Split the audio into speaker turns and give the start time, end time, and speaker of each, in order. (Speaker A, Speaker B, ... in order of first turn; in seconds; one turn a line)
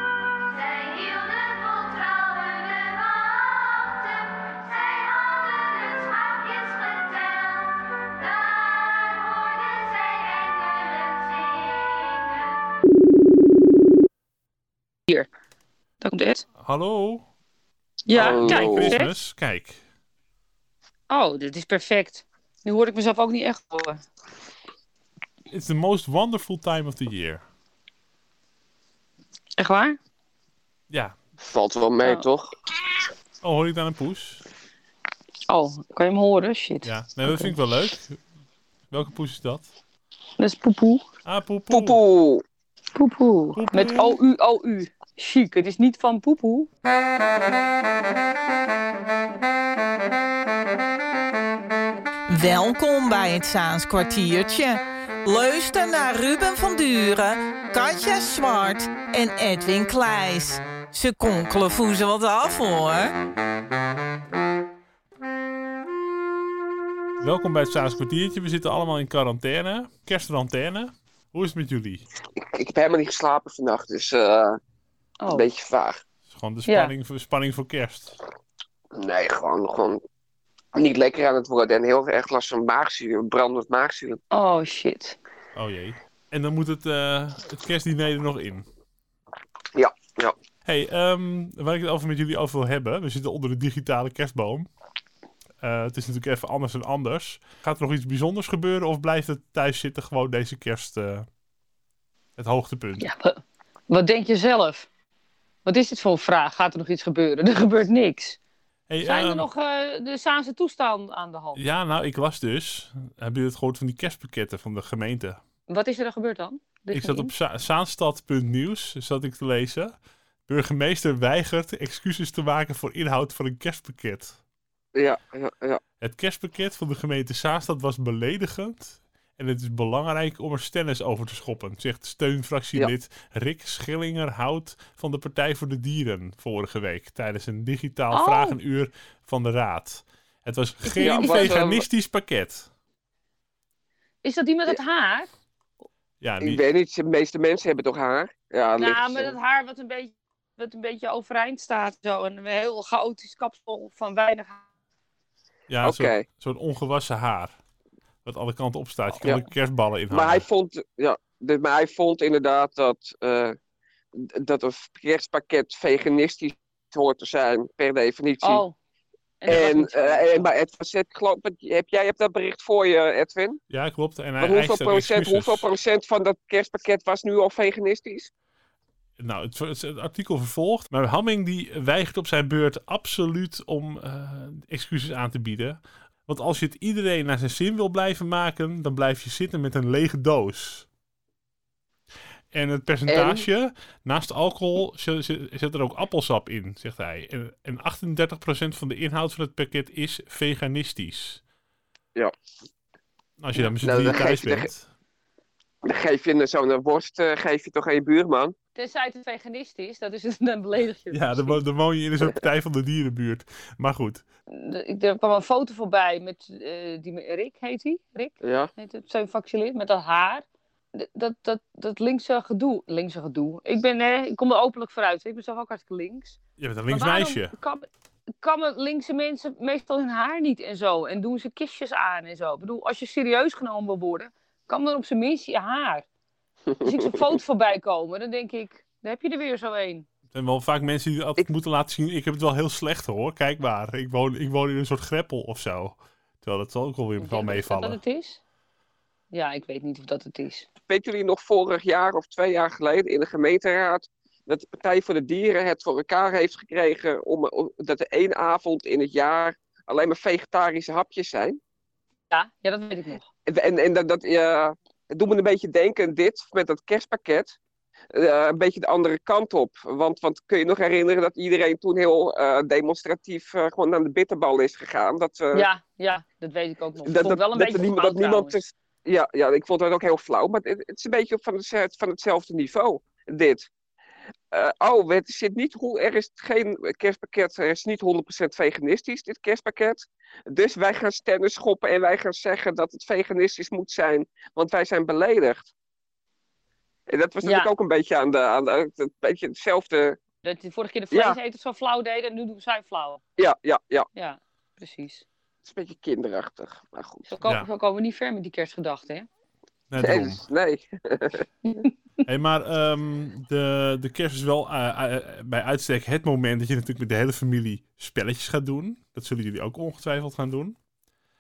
Speaker A: 0.5-7.7
Speaker A: 8.2-11.4
Speaker A: 16.0-16.4
Speaker B: 16.6-17.2
Speaker A: 18.1-19.1
Speaker C: 18.1-19.0
Speaker B: 18.2-19.8
Speaker A: 21.1-24.0
Speaker B: 25.5-27.4
Speaker A: 29.6-30.0
Speaker B: 30.9-31.2
Speaker C: 31.4-32.5
Speaker B: 33.4-34.4
Speaker A: 35.5-37.5
Speaker B: 36.8-38.2
Speaker B: 38.9-39.7
Speaker A: 40.4-41.0
Speaker B: 41.2-42.0
Speaker C: 41.7-42.4
Speaker A: 43.0-46.7
Speaker B: 43.5-44.2
Speaker D: 52.3-63.1
Speaker B: 67.2-72.0
Speaker C: 72.3-74.6
Speaker A: 75.2-75.5
Speaker C: 75.3-76.0
Speaker B: 76.3-78.2
Speaker A: 76.7-76.9
Speaker C: 78.9-80.0
Speaker C: 80.8-84.2
Speaker A: 84.3-85.2
Speaker B: 85.5-88.7
Speaker C: 89.8-90.3
Speaker B: 90.7-94.7
Speaker B: 95.6-101.3
Speaker B: 102.4-103.1
Speaker A: 103.0-104.9
Speaker A: 105.7-108.4
Speaker B: 108.9-109.5
Speaker A: 109.0-111.6
Speaker B: 111.5-115.4
Speaker A: 115.7-117.3
Speaker B: 116.9-119.9
Speaker B: 120.5-124.4
Speaker C: 124.9-125.8
Speaker B: 126.0-142.7
Speaker A: 138.1-138.6
Speaker A: 140.8-141.6
Speaker C: 141.0-141.8
Speaker A: 144.2-145.3
Speaker B: 146.2-146.6
Speaker C: 146.4-149.3
Speaker A: 148.8-154.6
Speaker B: 155.7-157.5
Speaker C: 155.8-156.2
Speaker B: 158.2-160.4
Speaker C: 160.1-163.6
Speaker C: 164.1-168.6
Speaker A: 168.4-168.8
Speaker A: 169.4-170.5
Speaker C: 169.5-173.6
Speaker B: 173.7-175.7
Speaker C: 174.4-178.3
Speaker B: 179.2-190.9
Speaker B: 192.5-201.4
Speaker C: 193.1-193.4
Speaker B: 203.4-204.8
Speaker C: 203.8-204.7
Speaker C: 205.8-208.5
Speaker A: 208.8-211.6
Speaker B: 211.1-214.2
Speaker A: 214.5-226.3
Speaker C: 218.4-218.7
Speaker B: 226.6-227.5
Speaker A: 226.9-227.8
Speaker A: 228.4-236.1
Speaker C: 236.7-237.2
Speaker A: 236.8-240.1
Speaker B: 240.3-248.0
Speaker A: 247.2-248.4
Speaker A: 249.3-250.7
Speaker C: 250.9-261.6
Speaker A: 262.3-263.2
Speaker C: 263.4-267.6
Speaker C: 268.1-275.7
Speaker A: 275.5-278.6
Speaker C: 277.1-283.7
Speaker C: 284.5-295.7
Speaker C: 297.1-300.2
Speaker A: 297.4-297.7
Speaker A: 300.4-303.2
Speaker C: 301.1-301.4
Speaker C: 303.4-304.1
Speaker A: 304.1-305.2
Speaker C: 305.6-307.3
Speaker A: 307.3-309.3
Speaker B: 309.9-310.4
Speaker C: 310.0-311.4
Speaker B: 312.2-320.8